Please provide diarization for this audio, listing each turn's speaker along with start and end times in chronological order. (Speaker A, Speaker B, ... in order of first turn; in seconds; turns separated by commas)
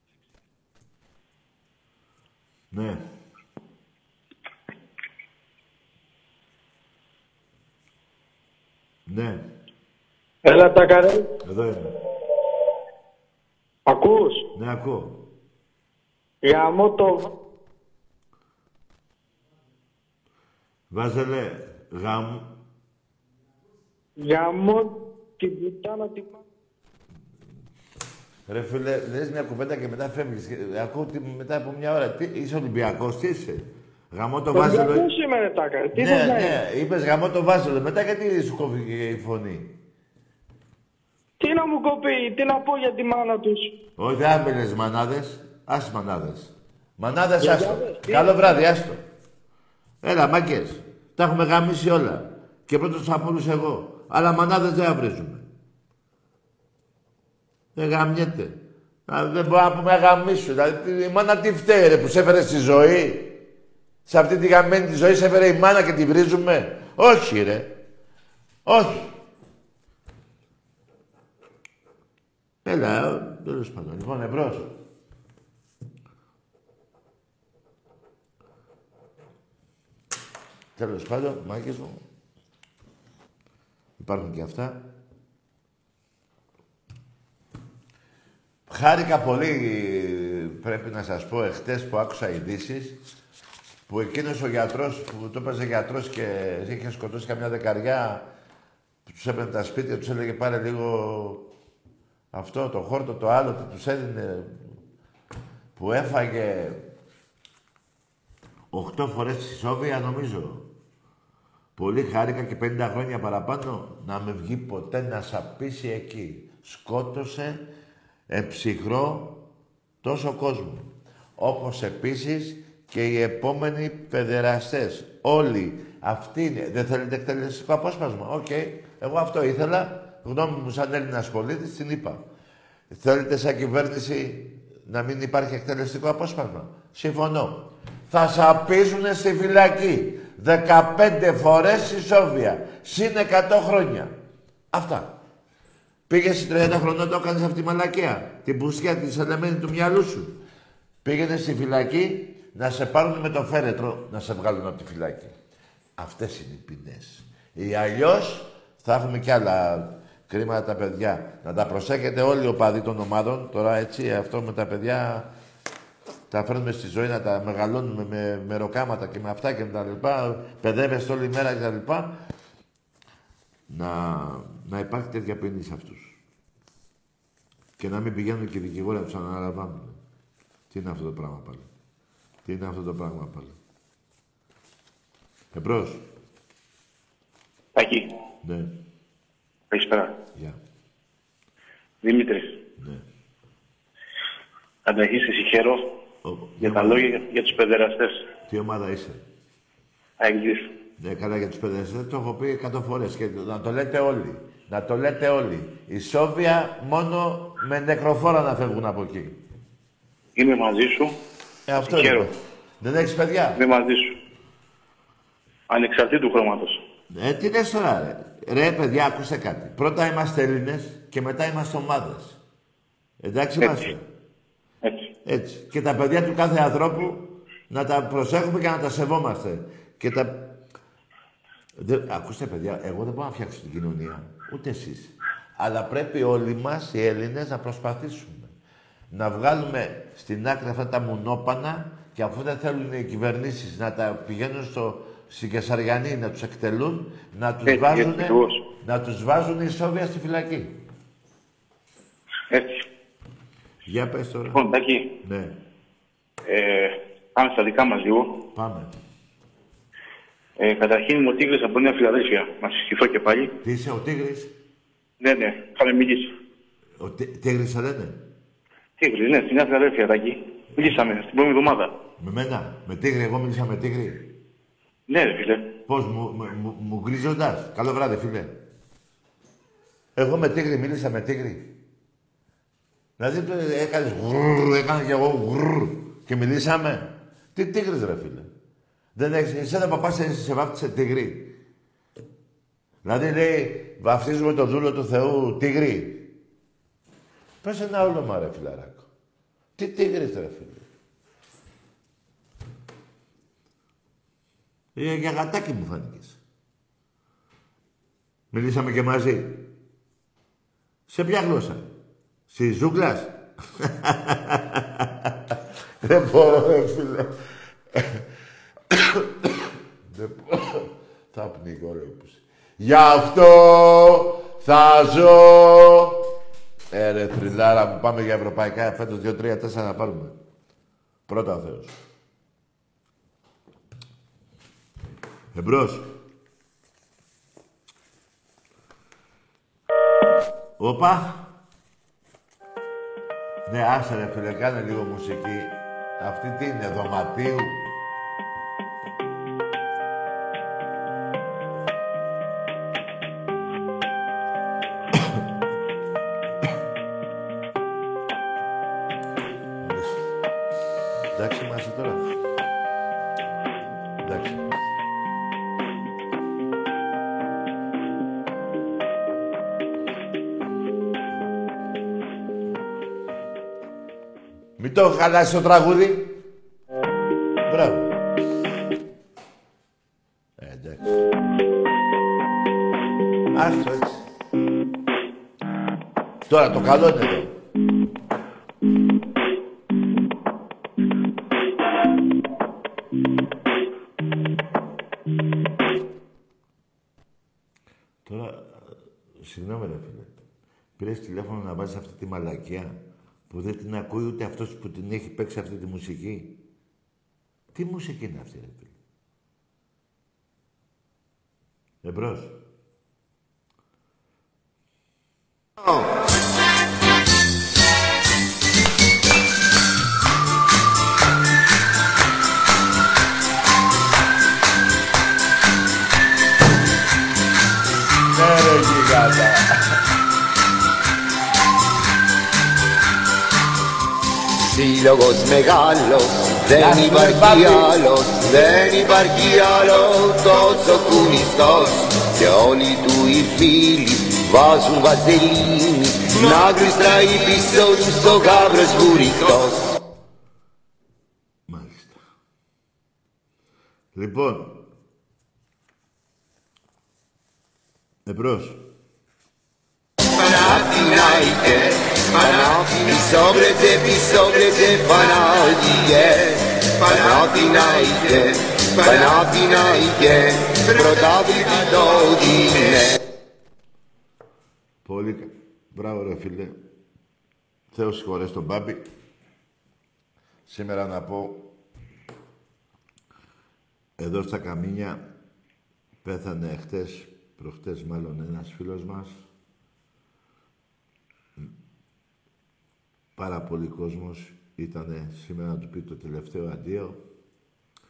Speaker A: 2.7-3.0, Speaker A: 9.1-9.4, Speaker B: 10.4-11.2, Speaker A: 11.4-11.9, Speaker B: 13.9-14.4, Speaker A: 14.5-15.2, Speaker B: 16.4-17.3, Speaker A: 20.9-22.5, Speaker B: 24.2-26.4, Speaker A: 28.5-35.1, Speaker B: 34.5-36.6, Speaker A: 35.9-39.7, Speaker B: 41.4-43.7, Speaker A: 44.0-49.0, Speaker B: 47.4-48.6, Speaker A: 50.0-55.5, Speaker A: 57.8-63.4, Speaker A: 64.0-67.8, Speaker A: 68.7-69.1, Speaker A: 72.6-74.7, Speaker A: 80.8-82.0, Speaker A: 84.0-84.8, Speaker A: 88.7-93.0, Speaker A: 93.9-98.2, Speaker A: 99.1-101.5, Speaker A: 102.3-104.6, Speaker A: 105.8-106.8, Speaker A: 108.7-110.7, Speaker A: 111.8-117.6, Speaker A: 118.3-119.4, Speaker A: 120.0-132.2, Speaker A: 132.9-144.1, Speaker A: 144.7-145.1, Speaker A: 146.1-150.4, Speaker A: 151.0-155.3, Speaker A: 156.0-165.3, Speaker A: 166.3-172.2, Speaker A: 173.7-176.2, Speaker A: 177.8-180.0, Speaker A: 180.7-181.7, Speaker A: 182.4-183.6, Speaker A: 185.5-186.0, Speaker A: 188.4-188.7, Speaker C: 189.7-190.0, Speaker C: 192.0-192.3, Speaker A: 192.8-193.0, Speaker C: 194.9-195.7, Speaker A: 196.2-197.3, Speaker C: 196.7-198.0, Speaker A: 198.5-199.2, Speaker C: 200.2-200.6, Speaker A: 201.0-209.4, Speaker C: 210.4-211.0, Speaker A: 211.7-213.6, Speaker C: 213.6-213.9, Speaker C: 215.7-216.6, Speaker A: 217.1-222.4, Speaker A: 223.2-224.0, Speaker A: 225.2-230.5, Speaker A: 231.8-238.5, Speaker A: 239.1-250.8, Speaker C: 247.8-248.4, Speaker A: 253.9-254.6, Speaker A: 255.2-255.6, Speaker C: 257.4-258.2, Speaker A: 258.5-258.9, Speaker C: 260.6-263.4, Speaker A: 263.6-264.5, Speaker C: 265.2-266.1, Speaker A: 267.0-268.2, Speaker C: 269.0-271.9, Speaker A: 272.2-274.2, Speaker C: 275.1-275.6, Speaker A: 275.9-278.6, Speaker A: 280.1-281.7, Speaker A: 283.2-288.5, Speaker A: 289.1-291.5, Speaker A: 293.0-296.3, Speaker A: 297.6-299.1, Speaker A: 299.8-300.9, Speaker A: 304.9-306.4, Speaker A: 308.5-309.6, Speaker A: 311.1-311.9, Speaker A: 312.5-315.3, Speaker A: 316.0-317.3, Speaker A: 317.9-318.2, Speaker A: 318.9-326.2, Speaker A: 326.9-330.3, Speaker A: 331.3-331.9, Speaker A: 335.5-336.1, Speaker A: 340.8-341.5, Speaker A: 343.6-347.8, Speaker A: 359.8-360.2, Speaker A: 361.3-362.3, Speaker A: 364.2-364.6, Speaker A: 374.8-376.4, Speaker A: 377.7-378.1, Speaker A: 380.6-381.2, Speaker A: 383.5-384.2, Speaker A: 386.5-387.5, Speaker A: 398.2-400.3, Speaker A: 401.0-403.0, Speaker A: 403.5-406.6, Speaker A: 407.7-408.9, Speaker A: 412.0-412.5, Speaker A: 428.3-429.7, Speaker D: 434.7-449.8, Speaker A: 436.8-437.9, Speaker A: 451.7-452.2, Speaker A: 454.1-454.8, Speaker A: 458.2-458.8, Speaker D: 460.4-473.2, Speaker A: 475.0-476.8, Speaker A: 477.9-479.0, Speaker A: 480.7-481.6, Speaker A: 484.2-485.2, Speaker A: 486.2-489.4, Speaker A: 493.4-497.2